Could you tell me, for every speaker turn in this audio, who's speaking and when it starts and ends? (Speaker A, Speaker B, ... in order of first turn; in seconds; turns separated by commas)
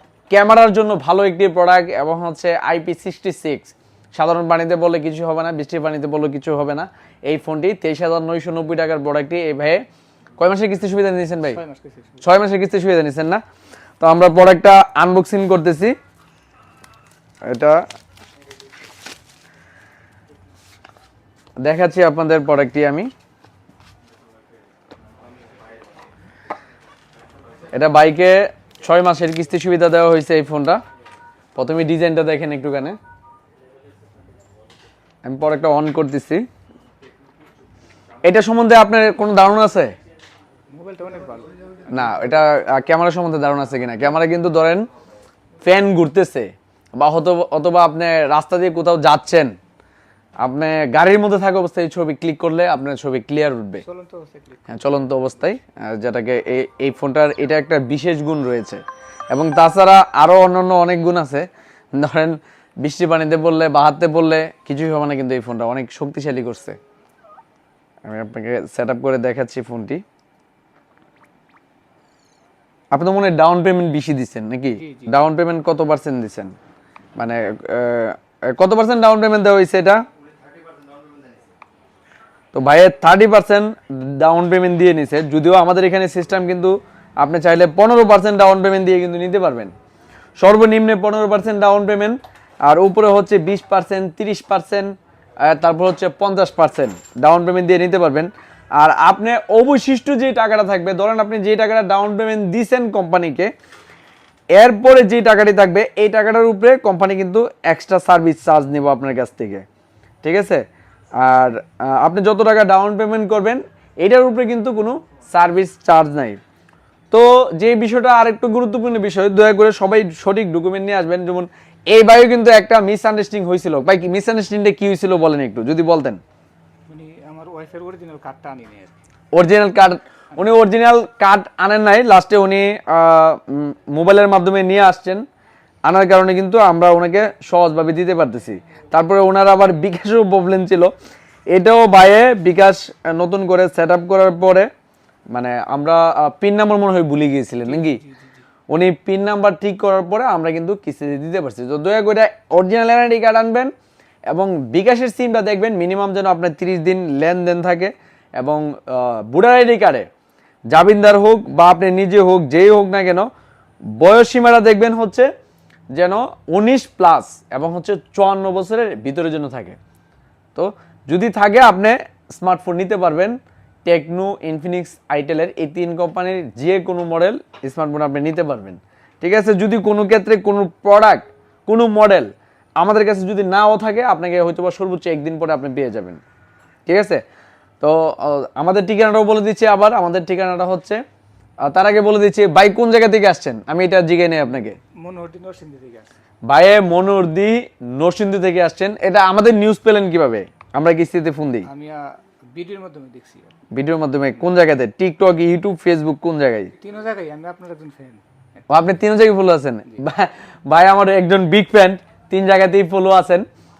Speaker A: 0.3-9.8, Speaker A: 10.4-11.6, Speaker B: 11.4-12.2, Speaker A: 12.2-13.4, Speaker A: 14.0-15.9, Speaker A: 17.5-17.8, Speaker A: 21.6-23.1, Speaker A: 27.7-30.8, Speaker A: 31.6-33.0, Speaker A: 35.2-36.4, Speaker A: 38.2-39.9, Speaker B: 40.7-42.3, Speaker A: 41.9-44.9, Speaker A: 45.6-49.5, Speaker A: 50.4-53.8, Speaker B: 53.8-54.7, Speaker A: 54.7-58.8, Speaker A: 59.3-61.4, Speaker A: 62.0-66.8, Speaker A: 68.1-70.0, Speaker A: 72.9-76.5, Speaker B: 74.8-75.1, Speaker A: 77.2-80.0, Speaker A: 82.5-89.7, Speaker A: 90.4-103.5, Speaker A: 104.6-109.6, Speaker A: 110.2-110.6, Speaker A: 111.2-116.4, Speaker A: 117.1-126.2, Speaker B: 126.9-128.9, Speaker A: 129.3-135.2, Speaker A: 135.8-140.9, Speaker A: 141.5-144.7, Speaker A: 145.3-148.0, Speaker B: 147.6-148.4, Speaker A: 148.7-153.7, Speaker A: 154.3-160.1, Speaker A: 160.7-163.3, Speaker A: 164.0-165.3, Speaker A: 165.9-169.8, Speaker A: 170.5-173.3, Speaker A: 173.8-186.2, Speaker A: 186.9-187.2, Speaker A: 187.8-191.0, Speaker A: 191.6-194.8, Speaker B: 195.0-196.2, Speaker A: 196.5-201.7, Speaker B: 201.6-203.6, Speaker A: 203.7-206.7, Speaker B: 206.8-208.6, Speaker A: 208.7-213.4